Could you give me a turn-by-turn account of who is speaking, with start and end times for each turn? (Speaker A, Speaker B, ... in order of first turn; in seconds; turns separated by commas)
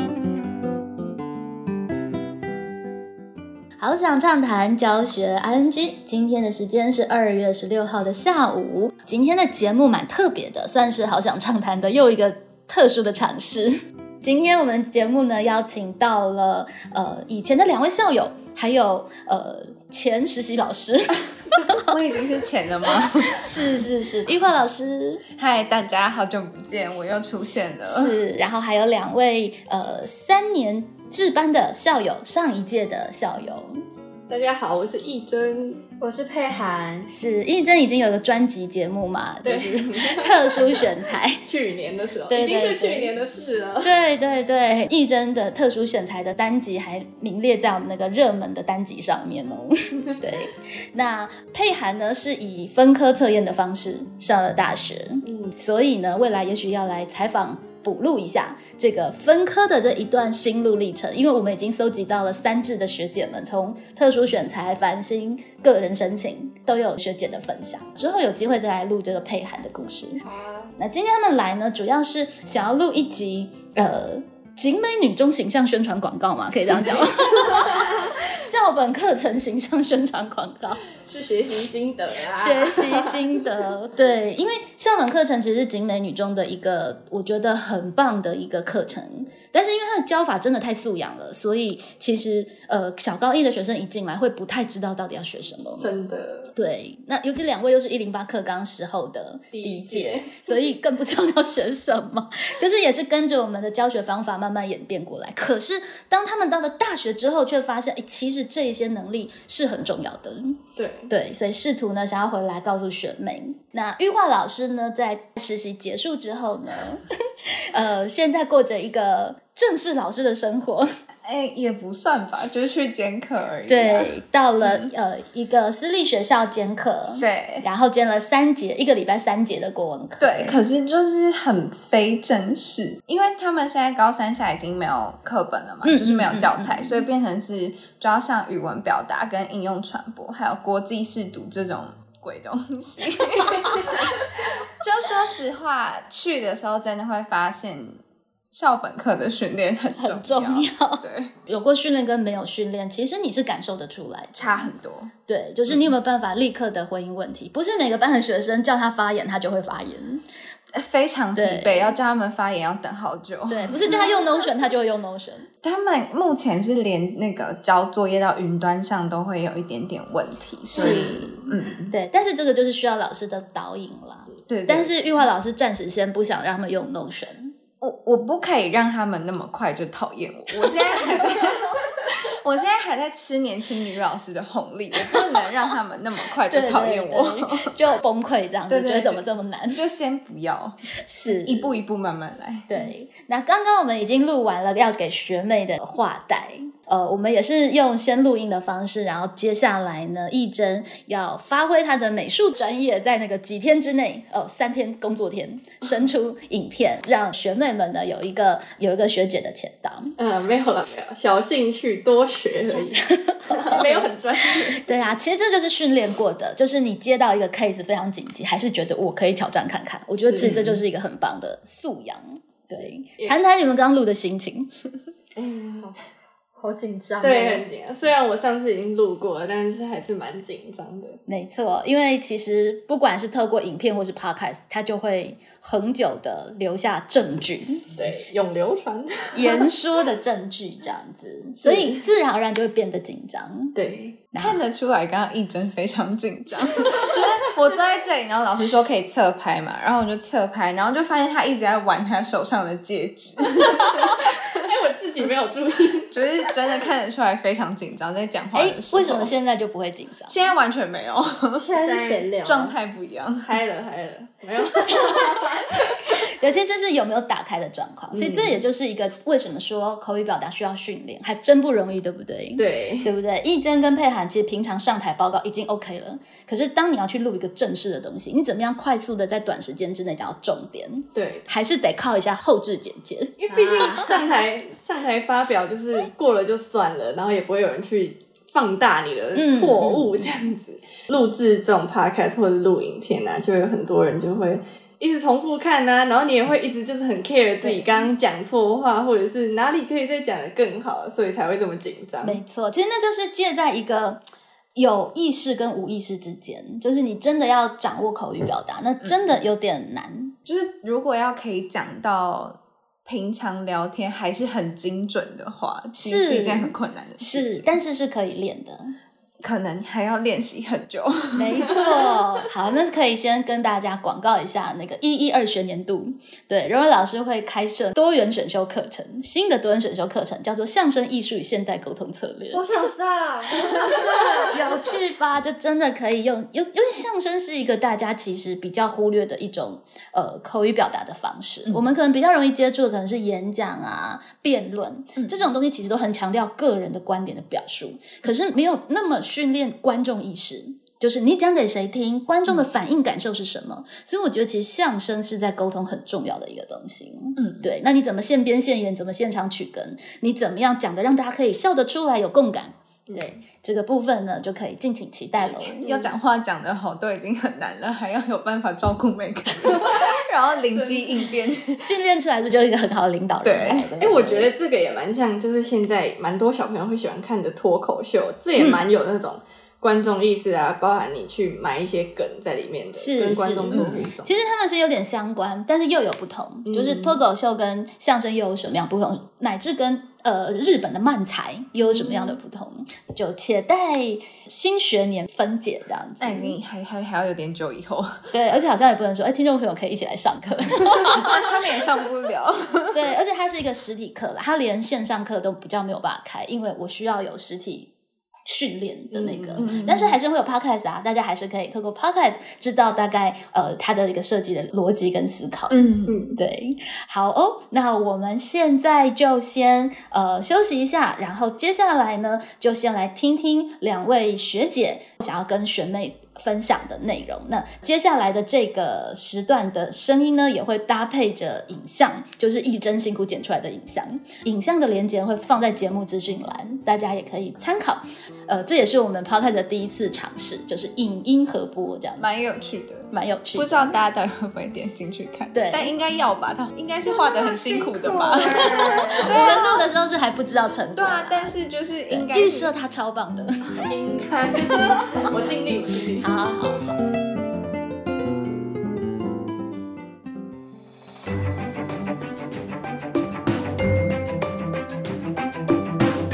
Speaker A: 3.8-21.9, Speaker B: 21.7-23.7, Speaker A: 23.3-25.2, Speaker B: 25.4-28.2, Speaker A: 27.9-33.8, Speaker C: 34.3-35.8, Speaker D: 36.0-37.1, Speaker A: 37.1-41.4, Speaker C: 39.5-44.0, Speaker A: 42.3-43.1, Speaker A: 43.8-70.2, Speaker D: 70.2-70.7, Speaker A: 70.8-80.8, Speaker C: 76.9-78.0, Speaker C: 81.0-83.6, Speaker A: 82.4-95.9, Speaker C: 95.8-96.5, Speaker A: 96.5-120.9, Speaker C: 99.5-100.6, Speaker C: 110.8-111.1, Speaker B: 121.2-124.9, Speaker A: 123.7-130.6, Speaker B: 127.2-127.7, Speaker B: 130.2-144.1, Speaker A: 135.8-137.1, Speaker B: 144.8-148.0, Speaker B: 148.5-151.3, Speaker A: 150.0-154.7, Speaker B: 154.4-155.1, Speaker A: 155.3-160.2, Speaker B: 160.7-164.0, Speaker A: 161.4-161.9, Speaker A: 163.5-165.5, Speaker B: 165.6-171.9, Speaker A: 170.8-177.5, Speaker C: 170.8-171.0, Speaker B: 174.5-174.9, Speaker B: 177.8-187.8, Speaker A: 186.5-189.8, Speaker B: 188.7-192.9, Speaker A: 191.0-191.8, Speaker A: 192.7-210.2, Speaker C: 210.2-214.8, Speaker A: 213.0-214.1, Speaker A: 214.8-224.7, Speaker C: 220.2-220.6, Speaker B: 220.4-220.8, Speaker C: 225.4-225.9, Speaker D: 226.6-227.7, Speaker C: 227.2-231.2, Speaker A: 231.3-237.8, Speaker C: 238.0-239.7, Speaker A: 239.3-243.8, Speaker C: 241.6-242.1, Speaker C: 243.8-244.2, Speaker A: 244.3-244.6, Speaker B: 244.4-254.6, Speaker C: 253.8-256.1, Speaker B: 256.1-259.3, Speaker A: 258.6-260.4, Speaker B: 260.3-261.7, Speaker D: 261.6-262.8, Speaker C: 261.8-262.2, Speaker B: 262.4-263.6, Speaker C: 263.4-266.3, Speaker A: 264.9-265.3, Speaker A: 266.1-284.1, Speaker C: 268.1-268.6, Speaker C: 272.6-273.1, Speaker C: 281.1-281.5, Speaker C: 283.4-302.4, Speaker A: 289.4-290.0, Speaker A: 297.6-298.0, Speaker A: 302.2-304.2, Speaker A: 304.8-310.3, Speaker B: 310.5-317.7, Speaker A: 316.0-318.9, Speaker B: 319.4-321.7, Speaker A: 321.4-332.6, Speaker D: 332.5-334.6, Speaker A: 334.5-366.0, Speaker B: 357.4-357.6, Speaker B: 365.6-371.9, Speaker C: 370.7-371.3, Speaker A: 371.8-374.5, Speaker B: 373.4-373.9, Speaker C: 374.0-384.3, Speaker A: 383.0-396.6, Speaker B: 383.7-384.0, Speaker C: 386.7-387.2, Speaker B: 391.9-392.4, Speaker B: 396.2-398.3, Speaker A: 398.3-401.4, Speaker B: 401.1-403.1, Speaker A: 402.9-407.9, Speaker A: 408.4-415.9, Speaker C: 409.1-409.7, Speaker B: 409.6-410.2, Speaker B: 415.7-416.2, Speaker C: 416.1-416.4, Speaker A: 416.4-442.3, Speaker B: 442.2-449.9, Speaker A: 443.1-444.0, Speaker A: 445.5-445.9, Speaker D: 447.1-449.3, Speaker A: 449.2-451.6, Speaker B: 451.0-452.7, Speaker A: 452.1-453.9, Speaker C: 453.8-456.3, Speaker A: 454.8-455.0, Speaker A: 456.2-457.0